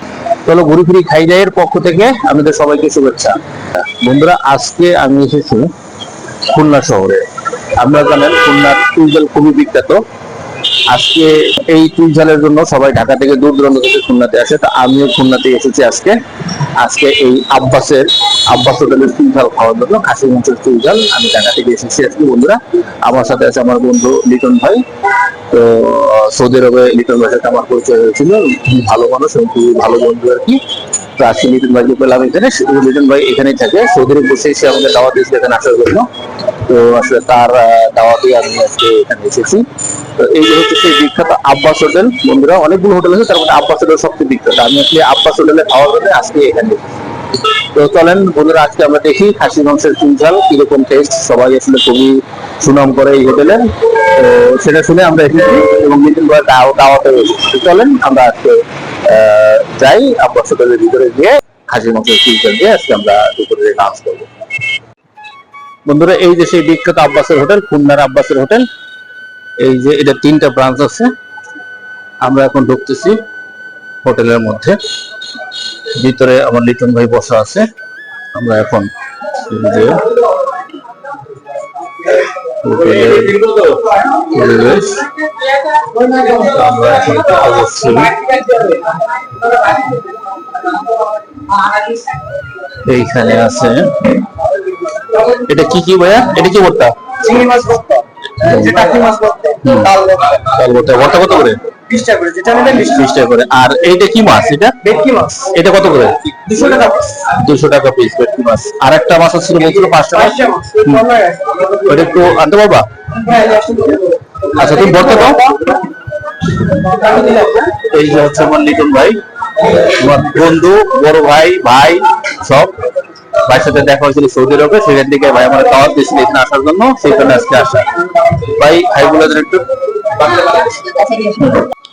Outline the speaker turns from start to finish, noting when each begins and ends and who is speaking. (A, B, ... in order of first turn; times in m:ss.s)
0:00.4-0:05.7 A
0:06.5-0:07.2 A
0:07.8-0:10.0 A
0:10.9-0:16.2 A
0:16.8-0:24.8 A
0:25.5-0:30.6 A
0:31.2-0:36.1 A
0:36.6-0:39.6 A
0:40.2-0:46.8 A
0:47.7-1:04.3 A
1:05.9-1:08.6 A
1:09.6-1:11.1 A
1:12.2-1:13.2 A
1:14.0-1:14.8 A
1:15.9-1:17.6 A
1:18.3-1:20.0 A
1:22.5-1:25.1 A
1:26.1-1:28.4 A
1:32.7-1:34.2 A
1:35.1-1:37.6 A
1:37.3-1:38.0 B
1:38.4-1:41.6 A
1:38.8-1:39.6 B
1:42.0-1:42.6 B
1:42.4-1:52.8 A
1:53.2-1:54.0 B
1:54.5-1:55.7 A
1:56.8-2:02.7 A
2:03.4-2:11.7 A